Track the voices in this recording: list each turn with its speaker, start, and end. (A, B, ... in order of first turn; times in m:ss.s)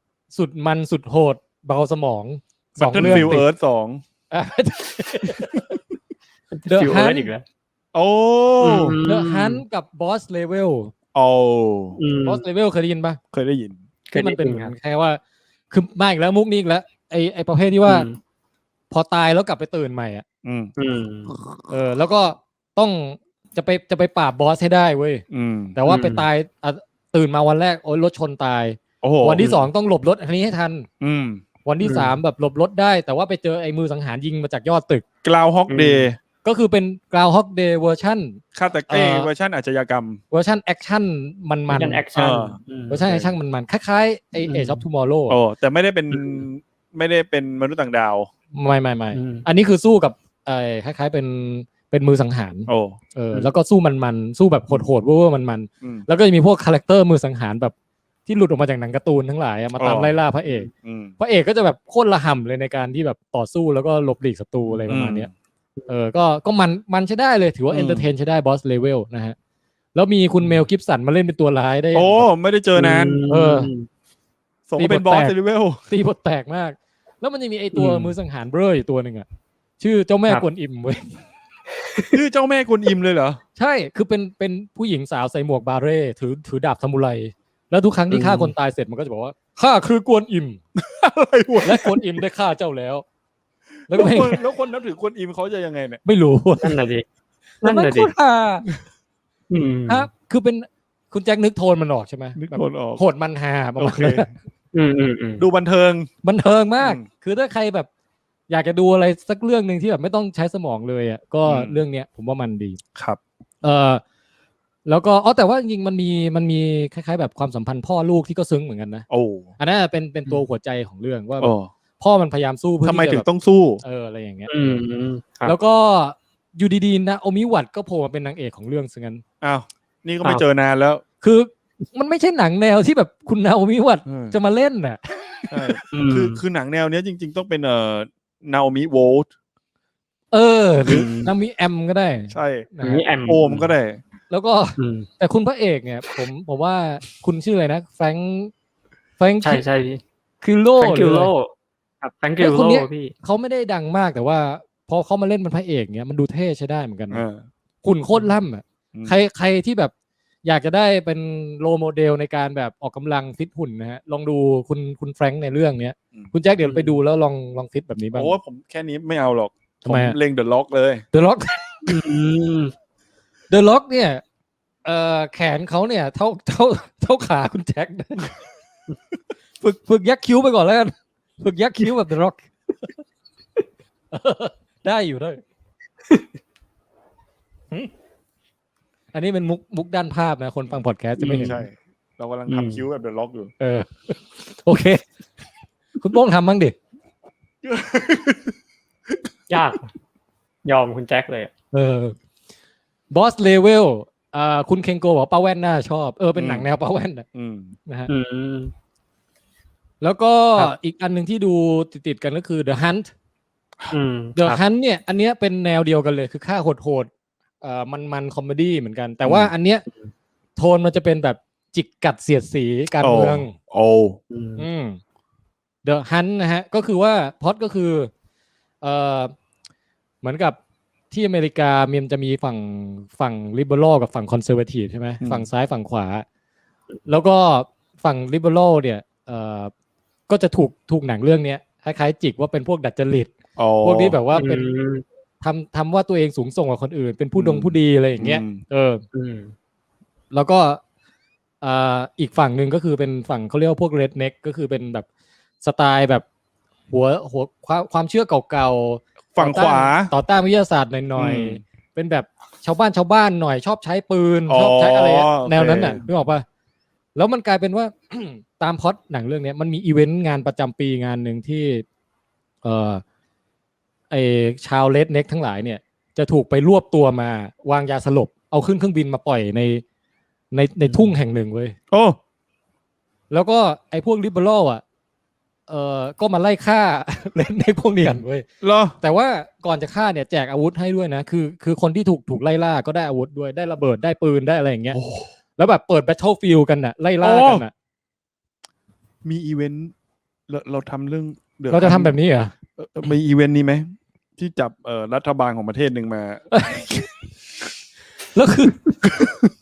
0:00.3-0:03.5 A
0:02.8-0:04.0 B
0:03.0-0:03.4 C
0:04.3-0:05.6 A
0:06.5-0:07.4 C
0:06.7-0:07.3 A
0:07.9-0:09.0 B
0:08.6-0:09.6 C
0:09.1-0:10.9 A
0:11.2-0:12.0 B
0:12.0-0:12.4 C
0:12.2-0:13.2 A
0:13.3-0:13.8 B
0:14.1-0:14.7 C
0:14.2-0:18.1 A
0:17.9-0:18.2 C
0:18.9-0:20.2 A
0:20.4-0:20.7 B
0:20.8-0:21.3 C
0:21.7-0:25.2 A
0:25.3-0:25.8 B
0:25.8-0:30.9 A
0:25.9-0:26.3 C
0:29.0-0:29.4 B
0:29.4-0:29.7 C
0:31.0-0:31.4 B
0:31.6-0:35.0 A
0:31.8-0:32.2 C
0:35.2-0:36.2 B
0:35.7-0:36.1 C
0:36.4-0:39.3 A
0:38.5-0:40.2 B
0:40.3-0:42.0 A
0:41.7-0:43.1 C
0:42.1-0:43.3 B
0:42.9-0:45.4 A
0:44.4-0:44.8 C
0:45.3-0:48.3 B
0:46.1-0:46.4 C
0:48.5-0:57.7 A
0:49.1-0:49.5 C
0:52.7-0:53.0 B
0:55.8-0:56.1 B
0:58.3-1:05.3 A
0:59.8-1:00.2 B
1:00.8-1:01.1 B
1:04.9-1:05.3 B
1:05.9-1:09.4 A
1:07.7-1:08.1 B
1:10.0-1:12.3 A
1:11.9-1:13.2 B
1:12.8-1:13.9 C
1:13.3-1:13.7 A
1:14.7-1:15.8 B
1:14.8-1:15.4 A
1:15.9-1:19.3 A
1:17.7-1:18.1 C
1:19.8-1:21.2 A
1:21.9-1:22.2 C
1:22.1-1:23.4 B
1:23.6-1:30.6 A
1:28.1-1:28.5 C
1:30.8-1:32.2 B
1:31.6-1:33.0 A
1:33.9-1:34.4 A
1:33.9-1:36.0 B
1:36.0-1:36.8 A
1:36.6-1:37.0 C
1:37.6-1:38.1 C
1:37.6-1:38.7 A
1:39.5-1:40.1 C
1:39.9-1:44.3 A
1:42.4-1:43.0 B
1:43.8-1:44.3 B
1:44.7-1:45.5 C
1:45.4-1:46.1 B
1:46.2-1:47.9 A
1:46.8-1:47.1 B
1:48.5-1:52.8 A
1:51.5-1:51.8 B
1:53.6-1:54.0 A
1:54.9-1:59.1 A
1:59.1-1:59.5 B
1:59.6-2:03.3 A
2:01.4-2:01.7 B
2:02.8-2:03.8 B
2:03.8-2:04.8 A
2:04.5-2:05.6 C
2:05.5-2:09.2 A
2:09.4-2:11.0 B
2:11.2-2:15.8 A
2:14.0-2:14.4 B
2:15.5-2:19.3 B
2:15.9-2:16.4 C
2:20.3-2:23.0 A
2:20.9-2:21.3 C
2:22.3-2:22.7 B
2:22.8-2:23.8 C
2:23.3-2:24.0 B
2:24.3-2:28.5 A
2:24.8-2:25.1 C
2:29.2-2:29.6 A
2:29.4-2:30.0 C
2:30.4-2:31.3 A
2:30.8-2:33.1 C
2:32.4-2:37.2 A
2:37.1-2:37.5 B
2:37.8-2:39.9 A
2:40.4-2:48.4 A
2:46.6-2:47.0 C
2:48.2-2:51.0 B
2:49.8-2:50.2 A
2:51.1-2:51.7 A
2:51.9-2:52.7 C
2:53.5-2:54.2 A
2:54.8-2:58.3 A
2:59.6-3:02.5 A
3:04.1-3:05.4 A
3:09.1-3:11.6 A
3:11.2-3:13.5 B
3:11.2-3:11.6 C
3:12.5-3:12.8 C
3:13.6-3:15.0 A
3:16.0-3:16.8 A
3:17.6-3:18.5 B
3:19.5-3:19.9 C
3:20.6-3:21.5 C
3:21.7-3:22.2 A
3:23.1-3:27.3 A
3:26.4-3:26.7 B
3:27.3-3:27.8 B
3:27.9-3:28.1 A
3:28.1-3:28.7 C
3:30.0-3:33.1 A
3:33.9-3:34.6 C
3:34.4-3:37.1 A
3:37.6-3:39.8 A
3:39.2-3:39.5 B
3:40.6-3:43.5 A
3:43.0-3:44.2 B
3:44.3-3:44.7 C
3:44.6-3:45.0 A
3:45.8-3:48.1 A
3:48.8-3:49.3 A
3:50.2-3:50.6 A
3:51.1-3:56.2 A
3:55.2-3:55.5 B
3:57.1-3:59.7 A
4:00.3-4:04.7 A
4:03.6-4:04.2 B
4:04.3-4:05.0 C
4:05.4-4:09.0 A
4:07.4-4:08.6 B
4:09.1-4:09.5 C
4:10.3-4:10.8 A
4:11.6-4:15.1 A
4:15.6-4:16.2 A
4:16.9-4:26.4 A
4:19.4-4:20.1 B
4:21.2-4:21.6 B
4:24.5-4:26.0 B
4:27.2-4:31.8 A
4:32.6-4:33.0 A
4:34.1-4:39.8 A
4:40.5-4:41.8 A
4:41.9-4:42.2 B
4:43.3-4:44.8 A
4:45.7-4:48.5 A
4:48.6-4:49.0 B
4:49.0-4:55.0 A
4:54.9-4:55.3 B
4:55.6-4:57.7 A
4:57.2-4:57.6 B
4:59.2-4:59.9 B
5:00.5-5:02.2 B
5:01.7-5:02.6 A
5:02.8-5:06.5 B
5:06.5-5:07.1 A
5:08.3-5:08.9 A
5:09.0-5:09.5 B